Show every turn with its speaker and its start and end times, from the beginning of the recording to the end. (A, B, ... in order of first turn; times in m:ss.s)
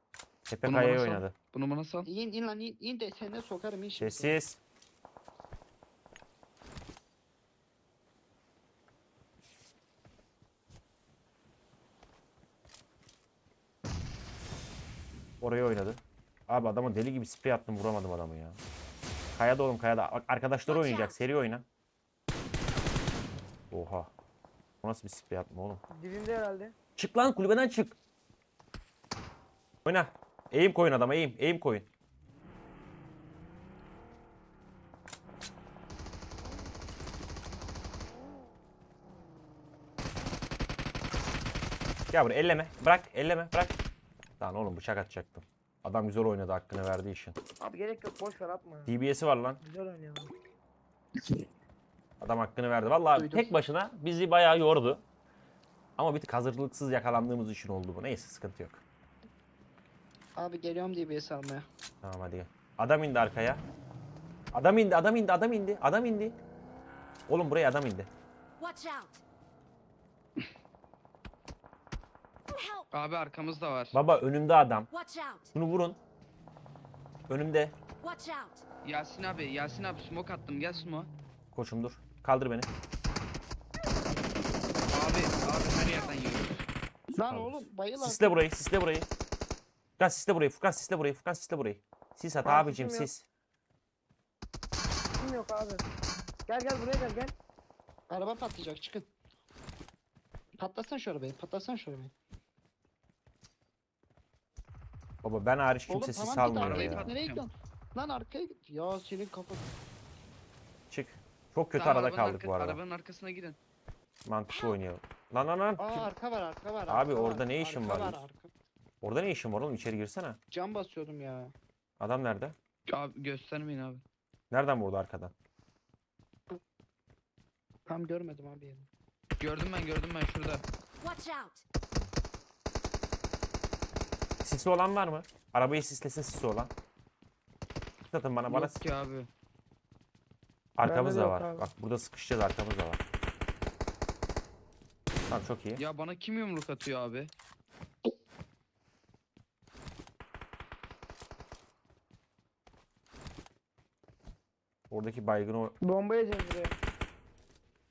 0:00.5-0:01.3 A
0:00.6-0:02.1 B
0:02.0-0:04.4 C
0:04.0-0:04.6 A
0:15.4-0:18.6 A
0:19.3-0:21.6 A
0:20.7-0:21.3 D
0:23.7-0:24.1 A
0:24.8-0:25.8 A
0:25.9-0:26.7 E
0:27.0-0:28.0 A
0:29.8-0:31.9 A
0:42.1-0:43.8 A
0:44.4-0:47.4 A
0:47.6-0:49.0 E
0:48.8-0:49.6 A
0:49.6-0:50.3 E
0:52.2-0:55.0 A
0:53.1-0:53.5 C
0:56.0-0:58.8 A
1:00.4-1:01.6 C
1:02.0-1:03.6 A
1:04.5-1:06.4 A
1:07.3-1:08.1 A
1:08.6-1:09.2 D
1:12.5-1:12.9 D
1:12.9-1:14.0 B
1:13.9-1:14.9 A
1:14.9-1:15.5 D
1:15.5-1:16.0 A
1:17.3-1:17.7 A
1:18.0-1:18.6 D
1:18.8-1:21.1 B
1:21.5-1:22.7 A
1:24.9-1:26.6 B
1:27.1-1:28.6 C
1:27.3-1:29.1 A
1:30.0-1:33.2 A
1:32.4-1:33.1 E
1:35.2-1:35.8 E
1:36.5-1:37.3 E
1:38.1-1:39.1 C
1:40.6-1:42.1 C
1:45.2-1:47.1 A
1:45.9-1:49.7 C
1:46.6-1:47.4 B
1:50.9-1:52.8 A
1:51.7-1:53.6 B
1:54.2-1:56.1 A
1:55.8-1:58.5 C
1:56.9-1:58.2 A
1:59.0-2:00.4 A
2:00.5-2:01.5 C
2:02.0-2:02.6 A
2:02.9-2:04.0 B
2:04.5-2:05.3 A
2:07.8-2:08.9 C
2:09.4-2:10.6 B
2:11.0-2:11.6 D
2:14.4-2:16.7 A
2:18.1-2:18.8 A
2:18.5-2:19.3 B
2:20.8-2:23.0 A
2:20.8-2:21.7 E
2:25.3-2:25.8 A
2:25.8-2:27.3 B
2:34.9-2:35.7 A
2:35.8-2:36.7 E